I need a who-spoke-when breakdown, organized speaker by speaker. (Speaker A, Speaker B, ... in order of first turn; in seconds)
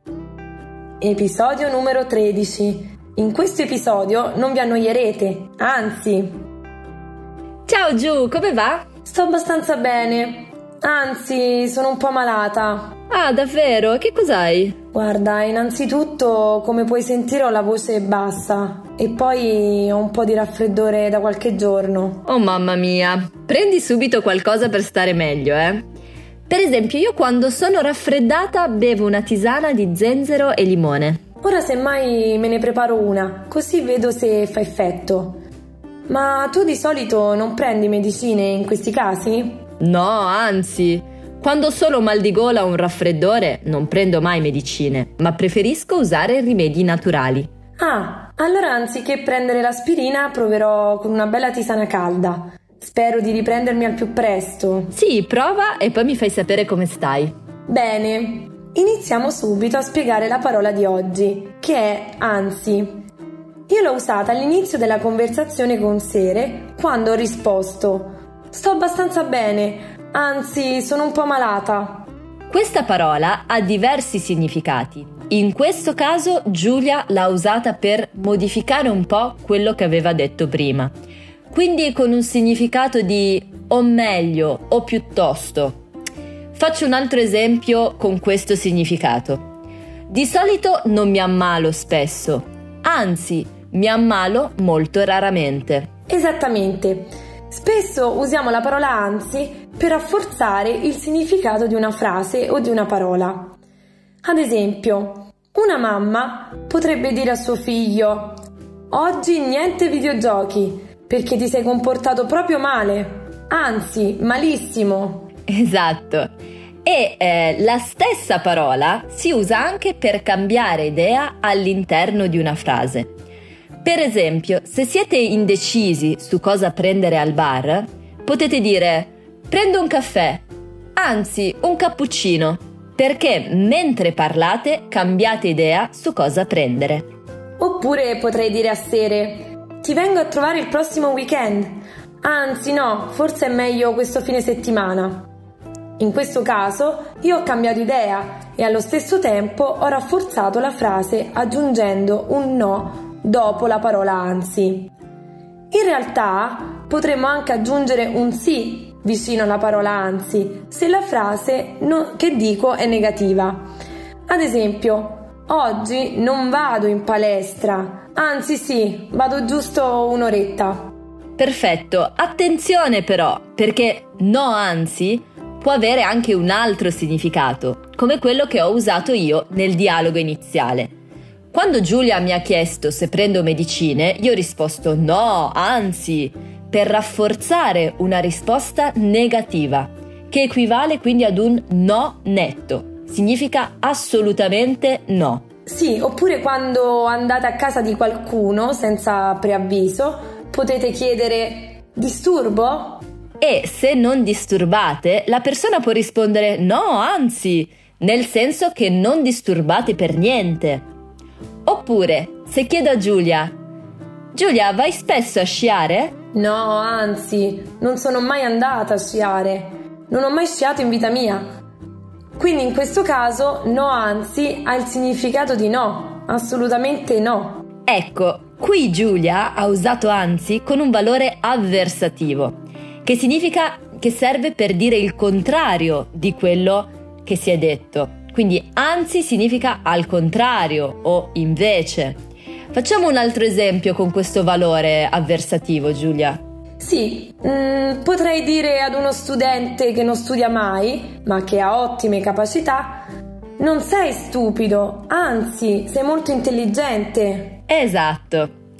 Speaker A: 1.0-6.4, 9.1-13.0, 14.9-22.2, 31.4-35.4, 36.1-39.6, 47.8-55.0, 57.7-63.0, 63.7-72.1, 96.1-103.5, 104.2-115.3, 137.6-145.3, 146.0-154.9, 155.7-163.7, 164.3-170.9, 195.7-203.0, 216.3-221.5, 222.4-227.7, 246.8-253.1, 253.6-257.6
Speaker B: 7.7-8.8, 13.1-14.8, 22.3-25.8, 26.5-31.2, 39.8-47.5, 54.9-57.3, 72.5-80.9, 81.5-85.8, 86.5-89.5, 90.1-95.9, 115.5-116.3, 116.8-123.1, 123.8-130.4, 131.0-137.1, 171.4-180.9, 181.5-195.4, 203.4-210.9, 211.7-213.5, 214.3-216.2, 227.9-242.2, 242.7-246.4, 257.7-258.5